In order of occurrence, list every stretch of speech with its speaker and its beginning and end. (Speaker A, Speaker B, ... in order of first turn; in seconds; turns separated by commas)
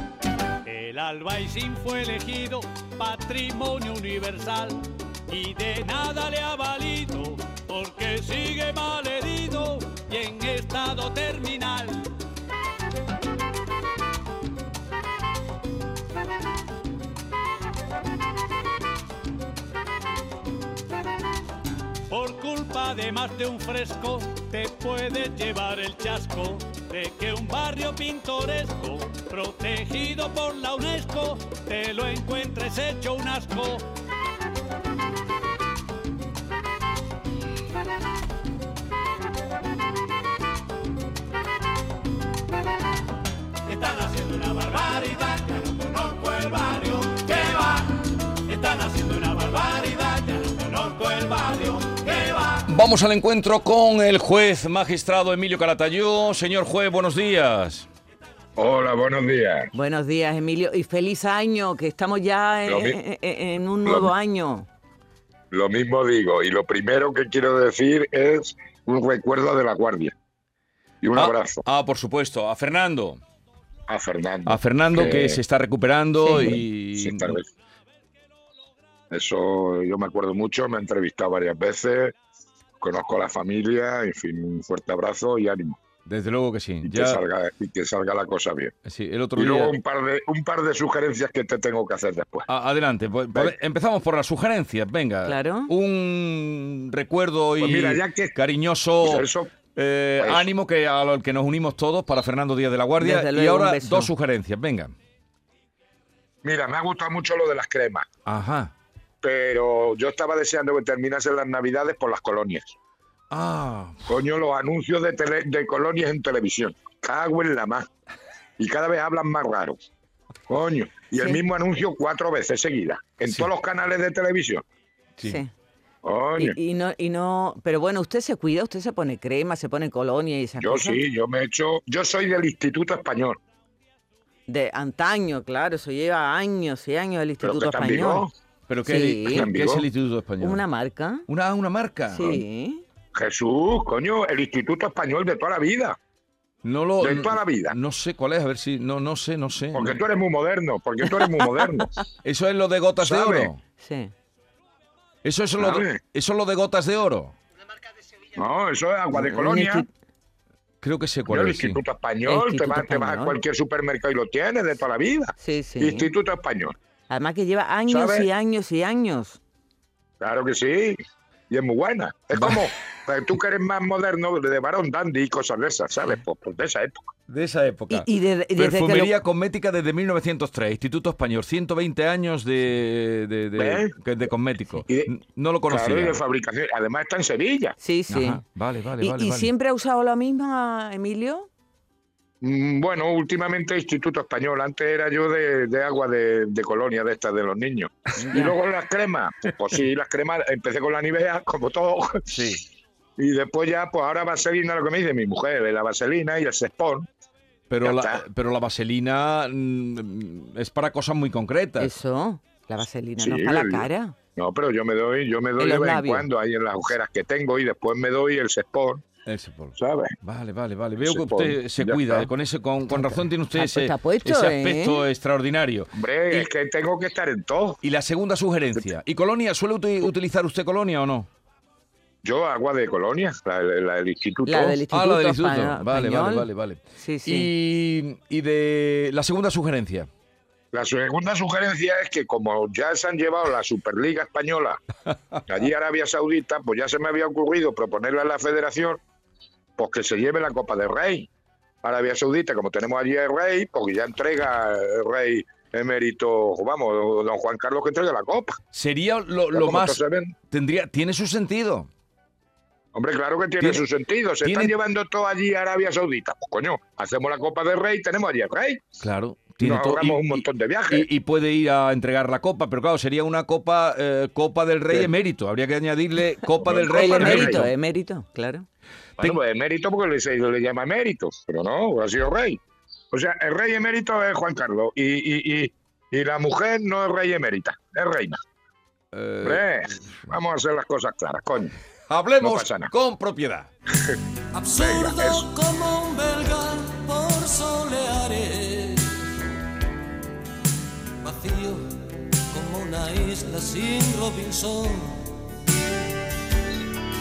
Speaker A: 0.7-12.1, Speaker A: 22.1-33.9, Speaker A: 43.7-47.6, Speaker A: 48.5-52.6, Speaker B: 52.7-57.9, Speaker C: 58.6-59.7, Speaker D: 59.7-64.7, Speaker C: 62.7-63.0, Speaker C: 63.9-64.1, Speaker C: 65.5-70.2, Speaker C: 71.0-71.6, Speaker B: 71.2-73.2, Speaker C: 73.9-75.4, Speaker B: 74.5-77.4, Speaker D: 76.3-76.5, Speaker C: 76.3-77.5, Speaker C: 79.1-82.2, Speaker C: 82.8-85.8, Speaker B: 86.1-87.2, Speaker C: 86.8-88.7, Speaker B: 88.9-89.8, Speaker C: 89.4-92.5, Speaker B: 92.5-104.9, Speaker D: 95.2-95.7, Speaker C: 97.6-98.3, Speaker C: 99.0-99.5, Speaker C: 100.2-100.5, Speaker D: 103.0-104.1, Speaker C: 106.4-108.1, Speaker B: 108.3-108.7, Speaker C: 109.2-112.7, Speaker B: 113.3-114.1, Speaker C: 114.1-117.9, Speaker C: 118.6-119.8, Speaker C: 120.5-124.6, Speaker D: 125.2-125.5, Speaker C: 126.0-126.6, Speaker D: 126.4-131.0, Speaker C: 130.6-133.4, Speaker D: 134.5-138.3, Speaker C: 137.4-138.3, Speaker B: 138.7-140.6, Speaker D: 138.9-139.5, Speaker C: 139.3-139.9, Speaker D: 140.4-141.3, Speaker B: 141.3-142.4, Speaker D: 142.1-142.8, Speaker C: 143.1-146.0, Speaker B: 146.6-150.0, Speaker C: 147.0-147.8, Speaker C: 149.7-151.9, Speaker B: 152.2-153.6, Speaker C: 153.0-153.5, Speaker D: 153.8-154.1, Speaker B: 155.2-157.3, Speaker C: 155.6-156.0, Speaker C: 158.3-159.9, Speaker D: 159.1-159.9, Speaker B: 160.8-161.8, Speaker C: 161.3-166.8, Speaker D: 162.2-163.4, Speaker D: 165.4-166.1, Speaker D: 167.1-169.4, Speaker C: 167.9-168.3, Speaker C: 170.2-171.0, Speaker C: 171.5-177.1, Speaker B: 172.3-172.7, Speaker B: 177.3-186.2, Speaker D: 177.9-179.1, Speaker C: 183.6-184.0, Speaker C: 184.9-185.1, Speaker C: 185.7-187.8, Speaker D: 187.8-188.4, Speaker B: 188.1-189.5, Speaker D: 189.0-191.5, Speaker C: 192.4-202.2, Speaker D: 198.2-198.6, Speaker B: 202.3-202.6, Speaker C: 203.2-207.1, Speaker B: 207.7-211.9, Speaker C: 207.8-208.2, Speaker D: 211.8-214.2, Speaker C: 213.2-219.0, Speaker D: 215.6-216.3, Speaker B: 219.3-225.9, Speaker C: 219.8-220.2, Speaker C: 221.0-222.3, Speaker D: 223.0-225.1, Speaker C: 225.9-227.8, Speaker B: 227.8-231.3, Speaker C: 232.2-234.8, Speaker D: 234.4-237.5, Speaker B: 234.9-240.1, Speaker C: 240.7-244.8, Speaker C: 245.5-249.0, Speaker C: 249.8-251.3, Speaker C: 251.8-258.6, Speaker B: 258.7-260.0, Speaker C: 259.5-260.4, Speaker B: 260.5-261.9, Speaker C: 262.9-268.8, Speaker B: 263.6-263.9, Speaker B: 264.4-264.7, Speaker B: 269.0-277.7, Speaker C: 269.6-271.1, Speaker C: 276.6-277.7, Speaker D: 276.9-278.7, Speaker C: 279.2-282.6, Speaker C: 283.1-288.4, Speaker B: 289.1-289.6, Speaker C: 289.4-291.8, Speaker B: 292.1-293.7, Speaker C: 292.4-292.9, Speaker E: 294.5-299.2, Speaker C: 294.7-295.5, Speaker E: 301.2-305.4